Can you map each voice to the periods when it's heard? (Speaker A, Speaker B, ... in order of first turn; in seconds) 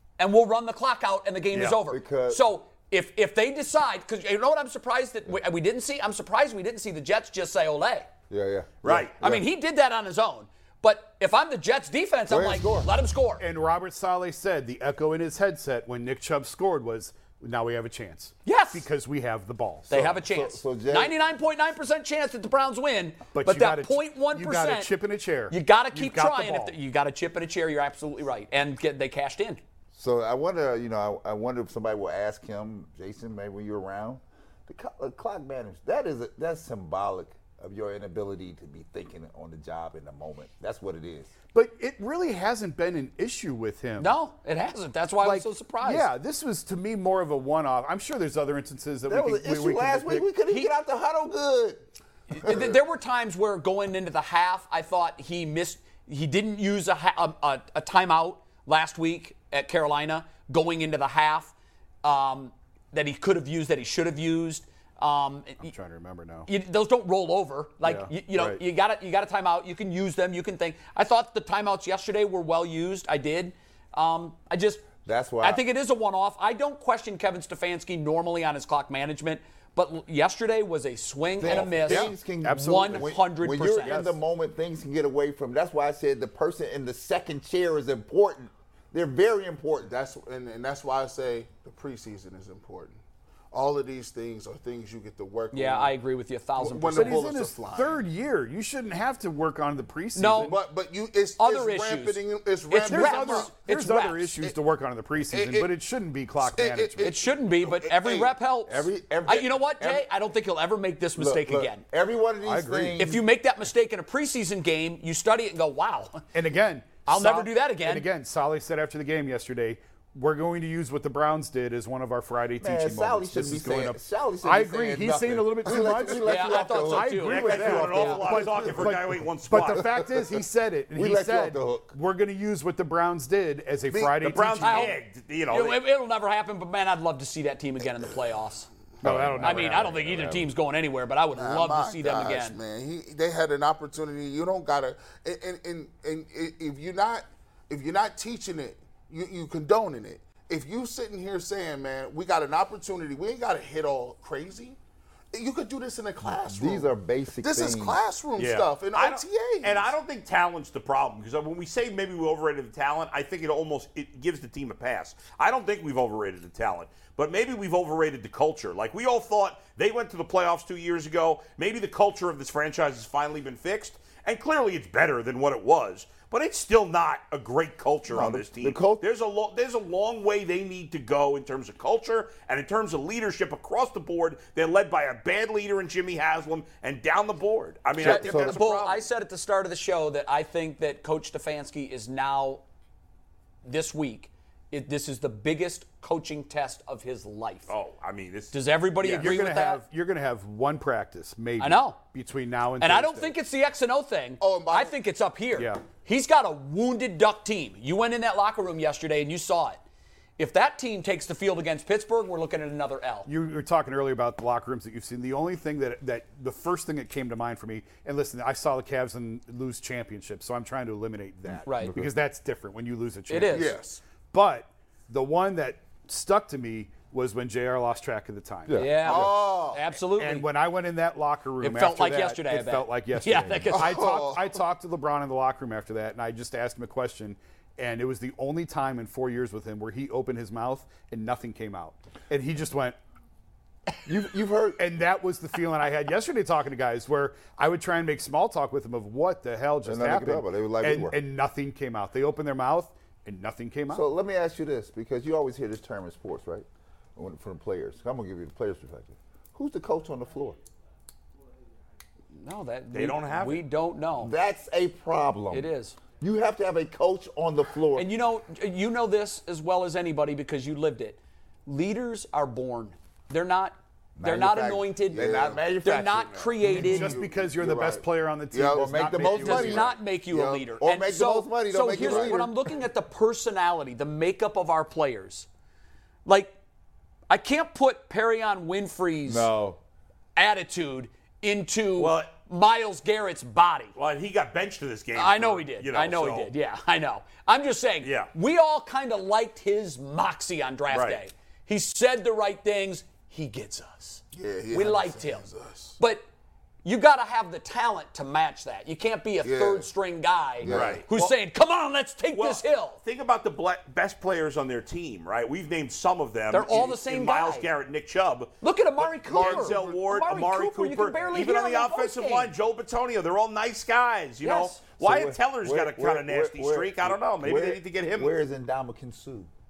Speaker A: 0.2-8.1, 9.2-13.4, 18.4-18.8, 19.9-24.9, 25.5-29.6, 44.0-46.1, 52.3-65.7, 66.5-74.9, 75.4-84.1, 95.5-97.2, 100.1-100.5, 101.4-104.3, 107.0-111.8, 113.0-116.2, 117.0-118.1, 126.2-128.2, 134.6-138.7, 139.4-142.6, 188.0-192.6, 193.6-197.7, 198.5-199.8, 201.6-202.0, 202.8-209.8, 210.4-213.3, 221.7-221.9, 223.3-223.7, 228.7-230.5, 231.6-233.8, 262.3-264.3, 265.5-266.0, 267.9-277.1, 279.3-285.5, 286.2-286.5, 287.3-289.5, 290.4-293.9, 295.1-305.5, 306.0-306.2, 306.8-313.0, 316.5-317.7, 318.6-322.5, 324.4-324.8
Speaker B: 1.8-2.4, 8.3-9.4, 12.3-12.9, 19.9-21.1, 29.9-41.3, 49.1-51.8, 52.4-52.7, 75.0-75.6, 81.4-89.9, 108.7-110.1, 111.2-113.2, 122.6-129.0, 129.7-130.4, 130.9-131.9, 139.0-140.4, 156.2-158.0, 178.1-179.0, 188.0-188.7, 221.5-222.1, 228.7-229.3, 244.0-244.8, 249.8-251.2, 253.9-260.6, 264.2-268.1, 274.2-276.5, 278.7-279.9, 280.8-282.5, 289.2-289.8, 325.0-329.5
Speaker C: 8.8-9.1, 127.3-129.9, 134.2-135.8, 158.4-189.0, 197.7-199.3, 262.9-263.6, 292.0-292.3, 293.9-296.5, 298.0-298.3, 300.9-301.2, 310.6-311.3, 312.3-328.3
Speaker D: 13.4-20.1, 23.3-26.8, 41.5-44.1, 45.2-50.3, 65.6-66.5, 67.8-68.6, 81.5-83.2, 83.8-84.2, 96.9-100.6, 102.8-107.1, 112.4-113.1, 116.3-134.9, 139.0-140.4, 199.1-203.3, 205.6-205.8, 213.2-223.7, 224.3-228.9, 230.2-243.0, 244.8-254.0, 276.6-279.9
Speaker E: 89.8-93.0, 93.5-96.0, 96.6-98.0, 100.4-103.6, 105.2-105.7, 106.4-108.3, 133.9-134.3, 141.3-154.8, 155.3-156.9, 157.4-159.9, 204.4-205.0, 223.5-224.0, 229.0-229.8, 233.7-234.6, 275.1-275.6, 276.5-280.8, 281.9-282.5, 304.3-306.0, 309.4-309.9, 310.6-311.0, 319.3-320.0